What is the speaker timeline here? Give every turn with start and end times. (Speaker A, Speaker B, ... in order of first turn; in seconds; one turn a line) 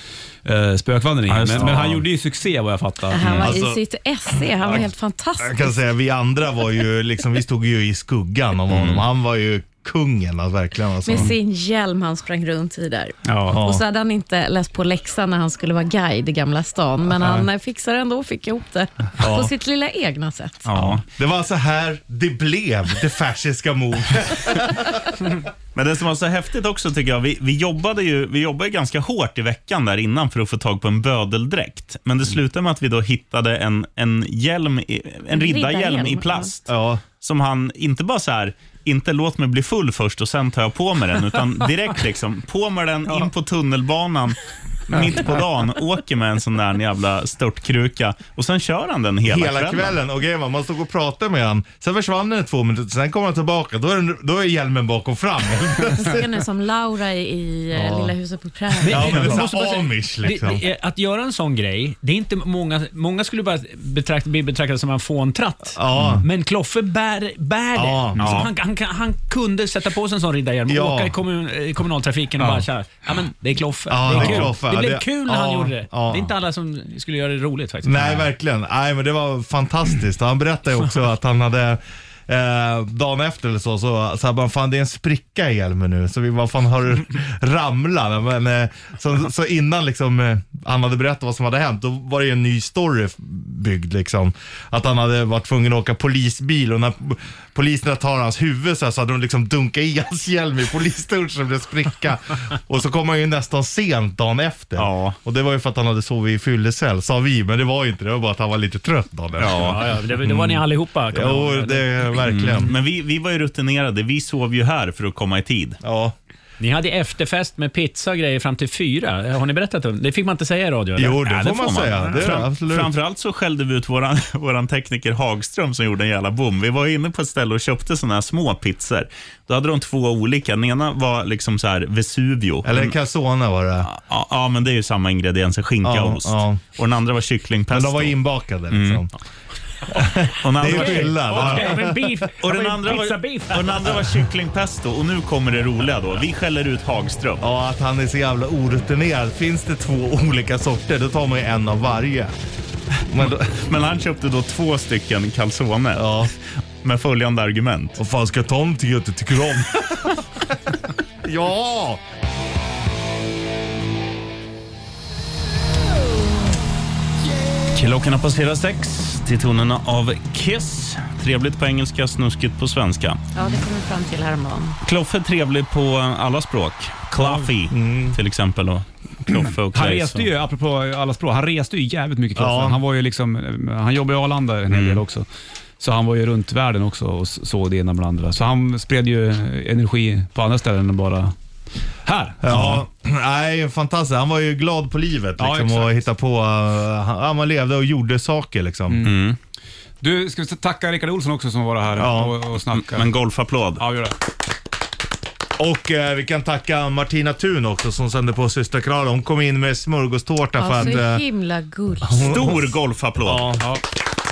Speaker A: 0.5-3.4
Speaker B: 1.3-2.0
Speaker C: 3.1-5.7
Speaker B: 3.2-3.5
Speaker D: 3.4-3.8
Speaker D: 5.4-11.3
Speaker B: 8.7-9.0
Speaker C: 11.0-20.7
Speaker A: 13.3-13.6
Speaker D: 13.5-13.8
Speaker D: 19.2-19.5
Speaker B: 20.7-21.0
Speaker D: 20.8-25.0
Speaker B: 25.7-50.0
Speaker C: 35.3-36.5
Speaker D: 36.7-37.0
Speaker D: 49.3-56.2
Speaker C: 55.9-59.4
Speaker D: 57.7-58.1
Speaker E: 58.8-78.3
Speaker D: 58.9-60.6
Speaker B: 59.0-59.4
Speaker D: 65.7-66.2
Speaker D: 67.7-68.5
Speaker B: 68.2-68.5
Speaker D: 70.7-71.1
Speaker D: 73.9-76.3
Speaker D: 77.8-112.7
Speaker B: 104.8-105.2
Speaker B: 109.4-109.8
Speaker E: 109.5-111.9
Speaker B: 112.2-115.8
Speaker D: 115.8-116.1
Speaker E: 116.6-121.3
Speaker D: 121.0-122.9
Speaker B: 121.2-132.9
Speaker D: 132.6-133.9
Speaker B: 133.8-138.2
Speaker D: 135.8-136.6
Speaker D: 137.7-139.1
Speaker B: 138.7-139.1
Speaker D: 139.9-142.0
Speaker B: 140.2-147.4
Speaker E: 140.7-143.9
Speaker D: 147.4-152.3
Speaker D: 153.1-153.5
Speaker B: 153.3-158.0
Speaker D: 155.9-156.3
Speaker D: 158.0-160.2
Speaker D: 161.2-162.0
Speaker B: 167.7-173.2
Speaker C: 173.3-174.8
Speaker B: 174.8-180.3
Speaker A: 177.2-177.5
Speaker D: 177.7-178.2
Speaker A: 179.7-185.3
Speaker D: 182.4-182.8
Speaker B: 184.7-185.0
Speaker A: 185.8-191.3
Speaker A: 192.1-192.7
Speaker D: 192.4-199.0
Speaker B: 192.5-192.8
Speaker A: 195.4-196.0
Speaker A: 198.9-199.2
Speaker B: 199.0-199.4
Speaker A: 200.0-203.1
Speaker D: 202.0-202.3
Speaker B: 202.8-203.8
Speaker A: 203.8-204.1
Speaker D: 205.6-211.2
Speaker C: 210.6-212.4
Speaker D: 212.1-212.6
Speaker B: 212.1-213.6
Speaker D: 213.2-213.7